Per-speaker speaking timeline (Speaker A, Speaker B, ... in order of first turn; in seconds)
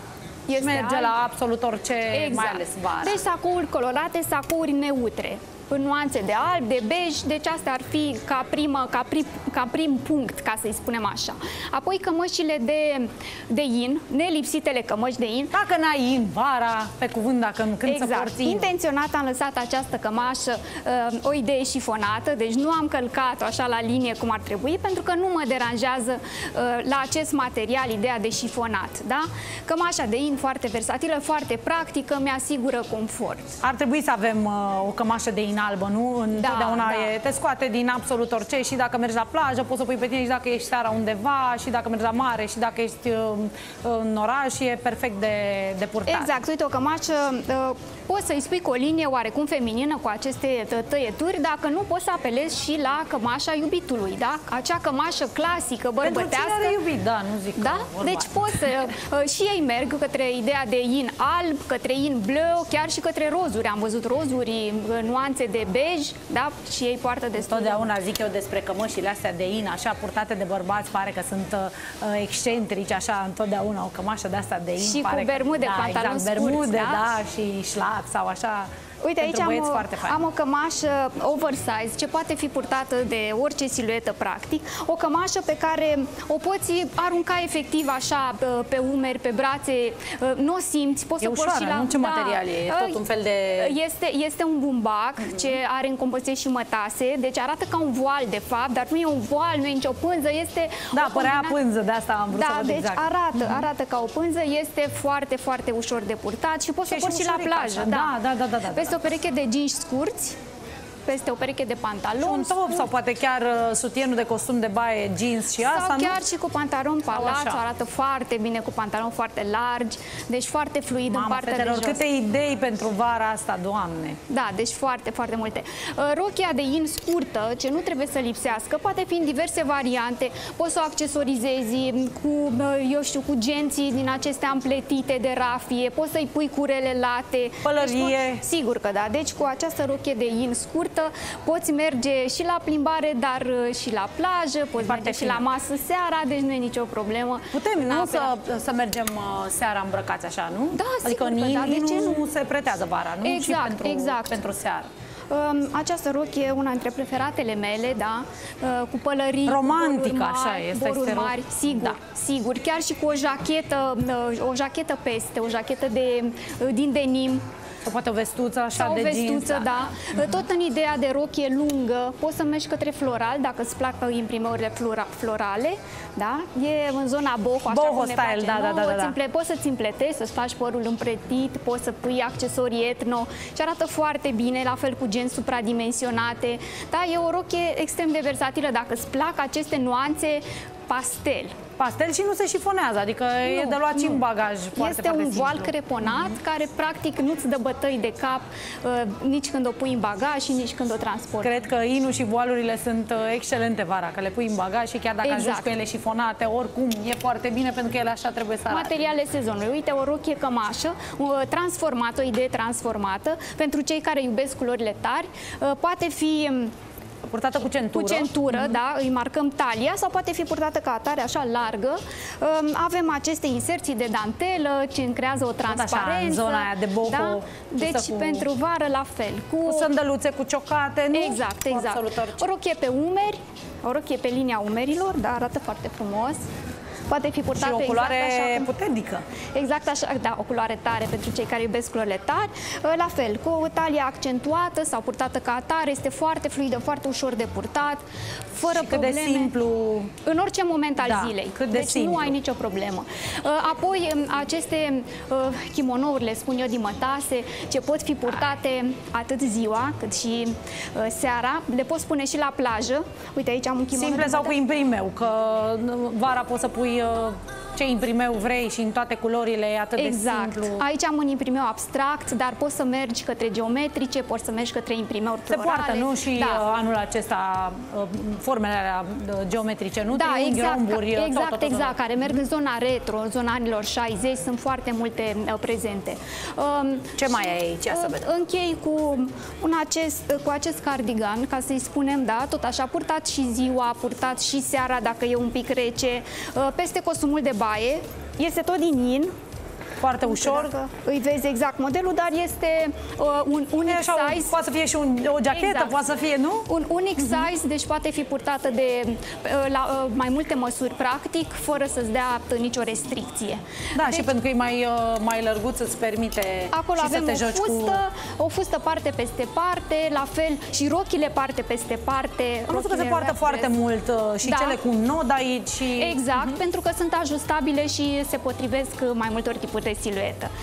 Speaker A: 0.5-1.2, 2.1-15.5, 17.8-33.6, 36.3-37.1, 46.1-56.9, 57.6-68.0, 74.8-77.1, 79.0-93.0, 93.6-101.6, 102.3-108.2, 108.7-110.4, 111.1-112.9, 115.5-122.0, 124.3-148.3, 150.7-152.3, 153.2-154.4, 155.3-167.4, 168.8-191.6, 193.4-194.2, 194.7-201.7, 205.2-205.7, 208.7-216.7, 217.9-229.9, 231.1-236.4, 237.1-238.7, 239.5-249.5, 250.3-264.6, 270.0-276.6, 280.1-299.3, 300.2-304.6, 305.5-306.0, 306.7-314.3, 316.7-323.7, 324.4-324.8, 325.9-330.5
Speaker B: 0.6-3.2, 15.5-18.7, 33.6-46.3, 56.0-58.7, 67.5-80.2, 91.2-93.8, 100.9-103.7, 106.9-109.0, 112.2-116.2, 117.1-117.6, 121.1-124.2, 137.6-138.4, 144.8-145.5, 147.5-154.9, 159.5-162.0, 167.8-170.0, 177.7-179.2, 191.8-195.8, 201.4-209.0, 217.3-218.8, 225.7-228.5, 229.6-232.4, 237.5-239.2, 248.7-250.1, 251.0-252.3, 263.9-270.8, 275.5-282.0, 287.2-288.3, 300.0-300.8, 303.9-306.7, 307.2-307.4, 313.9-318.0, 322.7-326.4